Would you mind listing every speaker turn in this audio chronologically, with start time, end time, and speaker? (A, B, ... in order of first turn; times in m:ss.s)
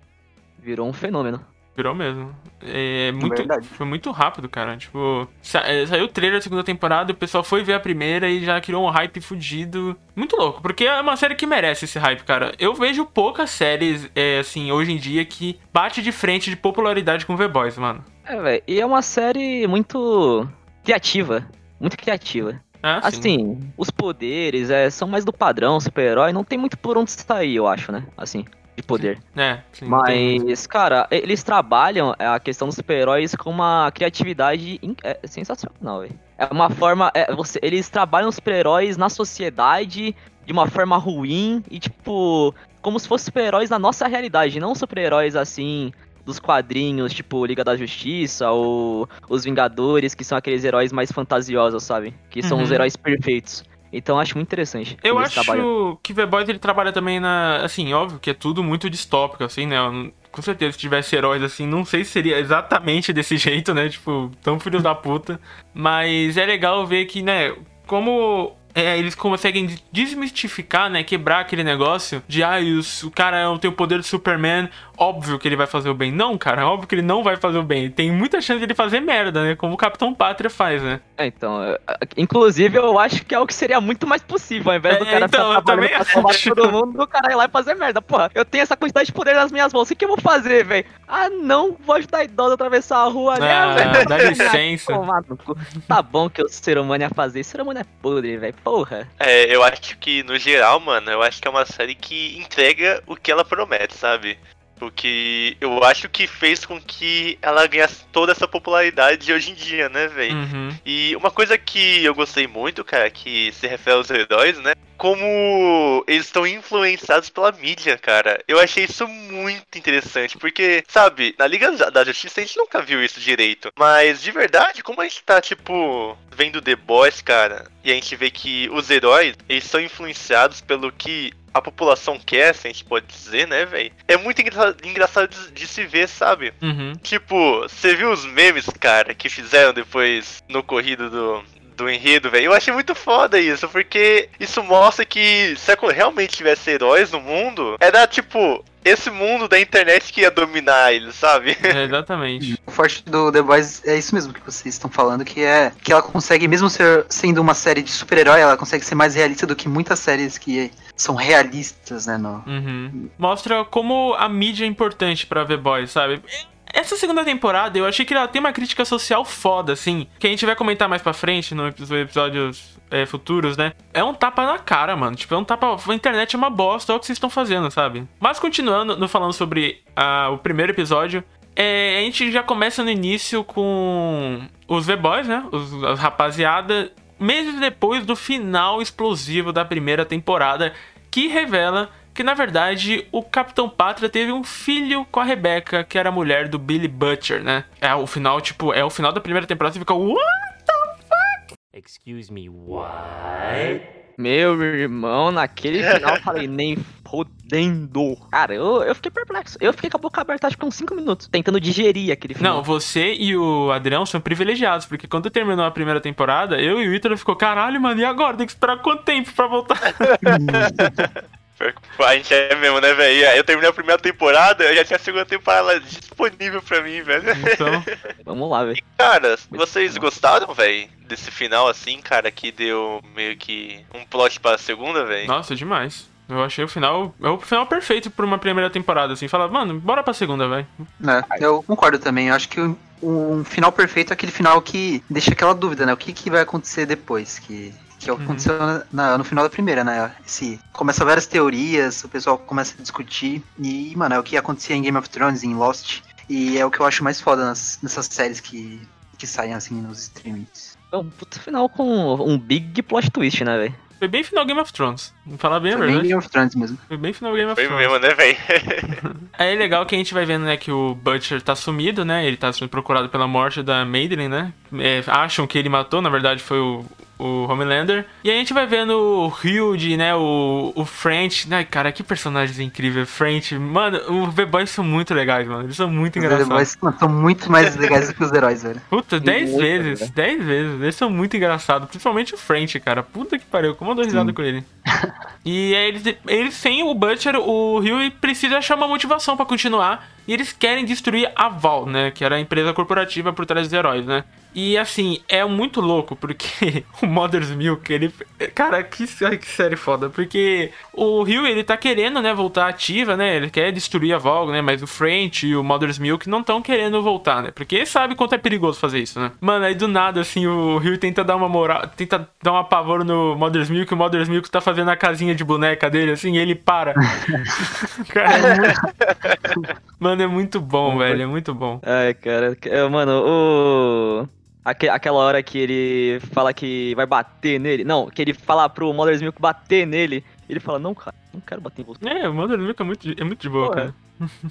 0:00.6-0:01.4 A
0:01.8-0:18.1 B
0:03.2-0:03.7 C
0:18.3-0:29.2 A
0:22.8-0:23.3 B
0:29.0-0:30.5 B
0:29.9-0:55.7 A
0:52.4-0:52.9 B
0:55.0-1:21.0 B
1:21.2-1:39.1 A
1:24.9-1:26.7 B
1:33.4-1:35.1 B
1:33.8-1:34.4 D
1:39.2-2:31.7 D
1:50.3-1:50.8 B
2:16.6-2:17.0 B
2:31.6-2:32.6 B
2:32.4-2:42.5 C
2:42.5-3:21.4 B
3:21.7-3:23.9 E
3:24.2-3:32.6 A
3:32.4-3:40.1 B
3:40.0-3:47.9 D
3:40.2-3:41.0 C
3:47.3-3:47.9 B
3:48.3-3:48.8 A
3:48.8-3:55.3 D
3:49.5-3:50.1 A
3:55.2-4:00.9 B
4:01.0-4:20.8 C
4:08.2-4:08.5 B
4:20.9-4:23.8 A
4:24.0-4:26.1 B
4:25.7-4:26.8 C
4:26.9-4:27.9 B
4:27.5-4:29.0 D
4:29.4-4:46.7 B
4:46.2-4:48.8 C
4:48.9-4:54.7 B
4:49.2-4:50.1 A
4:54.1-4:54.4 C
4:54.9-4:55.1 C
4:55.4-5:28.8 B
5:27.2-5:27.5 C
5:28.3-5:28.9 C
5:30.0-5:31.8 B
5:30.9-5:31.2 A
5:31.8-5:42.0 A
5:42.0-5:44.3 B
5:43.6-5:43.9 A